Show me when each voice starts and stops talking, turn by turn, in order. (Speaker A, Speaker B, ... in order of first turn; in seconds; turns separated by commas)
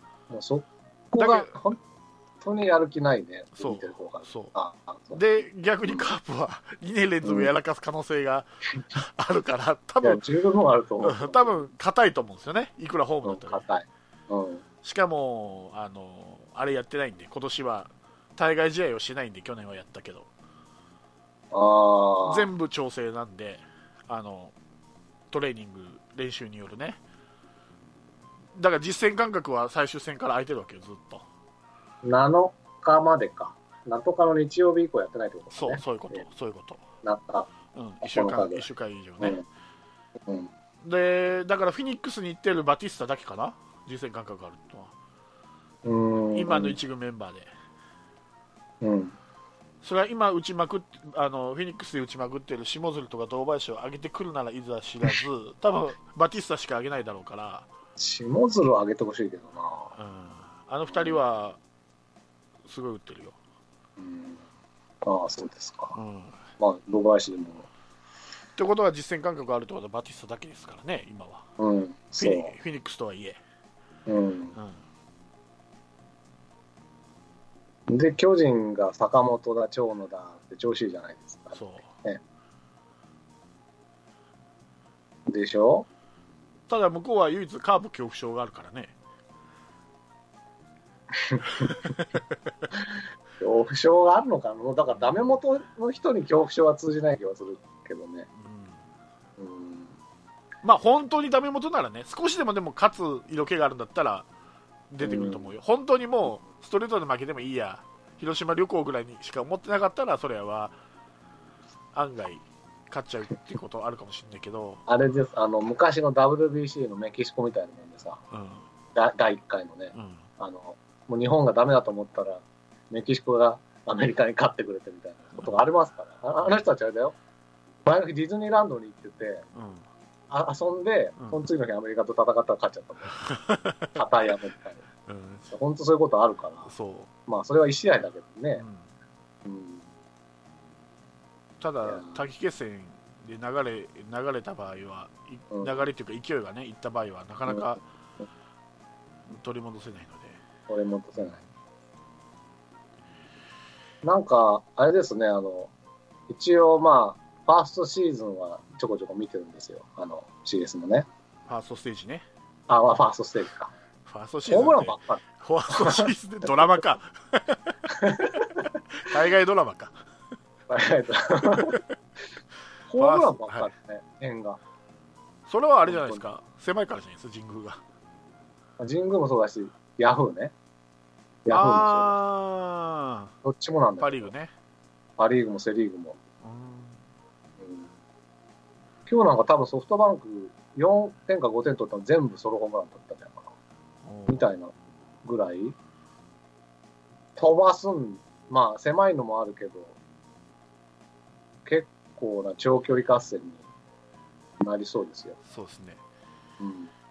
Speaker A: 0.3-1.8, Speaker B: 1.2-1.6, Speaker A: 2.4-5.2, Speaker B: 3.6-4.5, Speaker B: 5.1-10.2, Speaker A: 7.2-7.5, Speaker A: 10.0-11.6, Speaker B: 11.0-13.7, Speaker A: 13.2-14.6, Speaker B: 14.8-20.3, Speaker A: 21.5-22.5, Speaker B: 22.3-24.5, Speaker B: 25.3-27.0, Speaker B: 28.6-31.3, Speaker A: 32.0-36.2, Speaker B: 35.5-36.8, Speaker A: 37.0-37.5, Speaker B: 37.7-39.4, Speaker A: 38.0-38.7, Speaker A: 39.2-39.5, Speaker B: 40.8-44.9, Speaker A: 45.9-46.8, Speaker B: 46.3-47.5, Speaker A: 48.8-49.1, Speaker B: 49.8-57.7, Speaker A: 58.0-60.0, Speaker B: 60.0-61.6, Speaker A: 60.9-61.2, Speaker B: 62.7-63.4, Speaker A: 64.0-64.4, Speaker A: 65.0-66.0, Speaker B: 65.9-66.4, Speaker A: 66.6-67.7, Speaker B: 68.6-71.5, Speaker A: 71.6-72.5, Speaker B: 72.2-73.4, Speaker A: 74.1-74.5, Speaker B: 74.5-74.8, Speaker A: 77.9-82.2, Speaker B: 81.5-81.9, Speaker A: 85.3-85.9, Speaker B: 86.7-88.9, Speaker A: 91.2-91.8, Speaker B: 91.6-92.2, Speaker A: 93.4-98.3, Speaker B: 95.0-95.2, Speaker B: 98.4-98.8, Speaker A: 99.4-99.9, Speaker B: 100.6-104.3, Speaker B: 104.9-110.8, Speaker A: 105.0-105.5, Speaker B: 111.9-114.8, Speaker A: 114.9-118.2, Speaker B: 118.3-118.7, Speaker A: 118.9-127.2, Speaker B: 119.9-120.2, Speaker A: 127.9-129.5, Speaker B: 129.5-129.9, Speaker A: 130.3-133.2, Speaker B: 131.2-131.5, Speaker B: 133.1-134.0, Speaker A: 133.9-134.8, Speaker B: 135.1-135.5, Speaker A: 135.5-136.7, Speaker B: 136.7-137.1, Speaker A: 137.3-138.6, Speaker B: 138.6-138.9, Speaker A: 139.4-139.8, Speaker B: 141.6-147.8, Speaker A: 141.8-142.2, Speaker A: 145.5-145.8, Speaker B: 149.3-150.4, Speaker A: 150.7-151.4, Speaker A: 154.0-155.7, Speaker A: 156.3-161.1, Speaker B: 161.5-162.3, Speaker A: 162.7-163.7, Speaker B: 164.1-167.8, Speaker A: 164.5-166.1, Speaker A: 167.9-168.7, Speaker B: 168.9-169.9, Speaker A: 170.7-171.8, Speaker A: 172.9-174.6, Speaker B: 173.0-173.7, Speaker B: 175.5-177.8, Speaker A: 175.9-176.2, Speaker A: 178.8-180.5, Speaker A: 181.5-182.1, Speaker B: 181.5-183.3, Speaker A: 183.4-184.3, Speaker B: 184.0-184.5, Speaker A: 185.2-186.2, Speaker B: 186.4-187.0, Speaker A: 187.6-187.9, Speaker A: 189.1-193.5, Speaker B: 194.0-194.5, Speaker A: 194.3-195.8, Speaker A: 197.4-200.0, Speaker A: 201.7-203.7, Speaker A: 204.6-205.4, Speaker B: 205.5-206.0, Speaker A: 206.6-206.9